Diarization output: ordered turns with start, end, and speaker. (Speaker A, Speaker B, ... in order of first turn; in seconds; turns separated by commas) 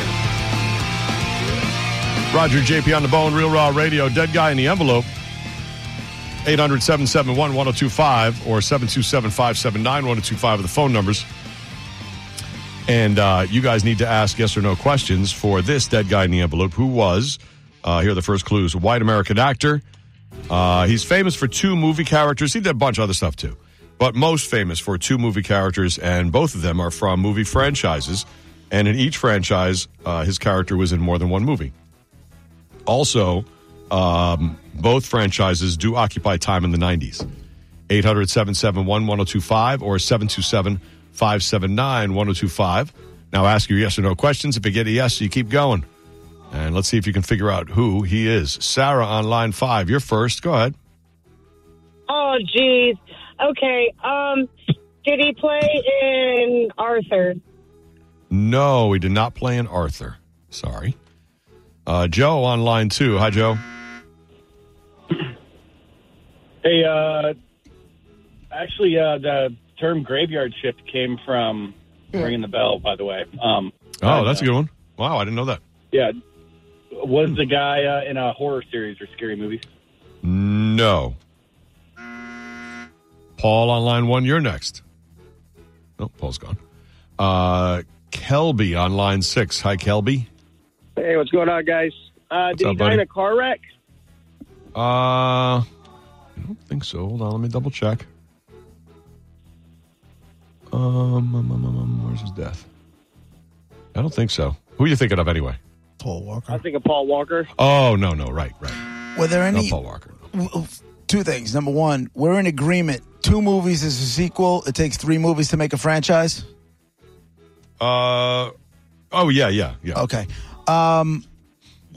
Speaker A: 2.3-5.1, Speaker A: 6.4-11.3, Speaker A: 12.9-19.8, Speaker A: 20.5-31.7, Speaker A: 32.9-37.2, Speaker A: 37.9-45.8, Speaker A: 46.5-50.8, Speaker B: 52.1-54.5, Speaker B: 55.0-57.4, Speaker A: 58.3-61.0, Speaker A: 61.9-63.6, Speaker C: 66.6-67.4, Speaker C: 68.5-74.5, Speaker A: 74.0-75.6, Speaker C: 76.9-79.7, Speaker A: 80.2-81.2, Speaker A: 83.4-84.8, Speaker A: 86.0-86.6, Speaker A: 87.2-90.3, Speaker D: 91.0-93.6, Speaker A: 92.5-93.1, Speaker A: 94.8-95.7, Speaker A: 96.4-98.1, Speaker A: 100.7-102.7, Speaker A: 104.0-105.6, Speaker E: 106.0-106.6, Speaker D: 106.5-107.5, Speaker A: 107.6-108.8, Speaker E: 109.2-109.8, Speaker A: 109.5-110.3, Speaker E: 110.3-116.5, Speaker A: 117.8-118.5, Speaker A: 119.1-120.0, Speaker E: 119.9-121.2